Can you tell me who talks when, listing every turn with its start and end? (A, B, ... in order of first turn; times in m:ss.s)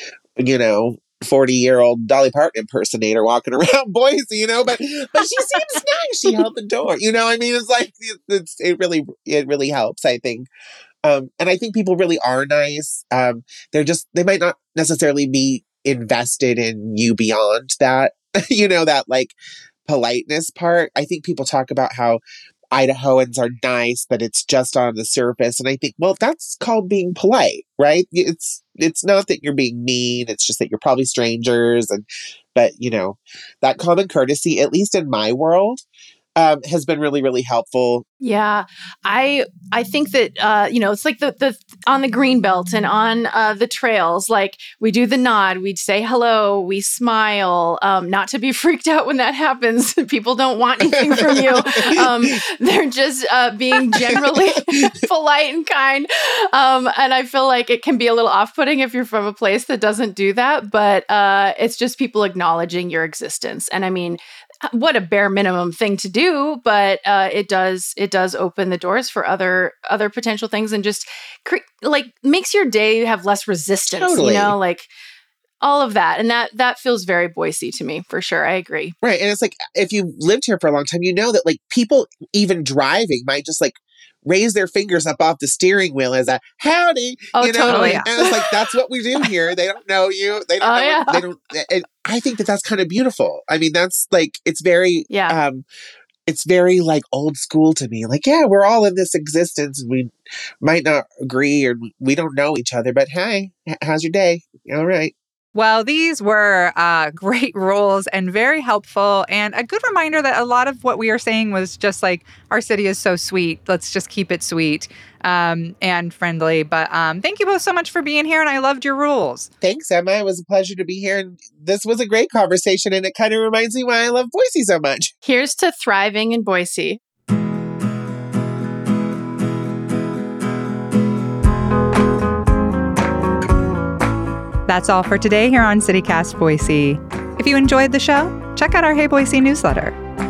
0:00.4-0:10.5 A
0:11.0-0:22.2 A
0:22.7-0:32.0 A
0:32.5-0:35.8 A
0:36.4-0:38.0 A
0:38.2-1:14.9 B
0:50.8-0:52.3 A
0:53.9-0:54.9 A
1:13.9-1:14.6 A
1:15.6-1:18.9 B
1:19.0-1:35.6 A
1:27.3-1:28.7 B
1:27.6-1:28.1 C
1:30.6-1:31.2 B
1:35.1-1:35.4 B
1:36.3-1:45.1 A
1:45.5-1:59.5 C
1:59.6-2:05.1 A
2:05.2-2:07.0 B
2:14.6-2:20.0 C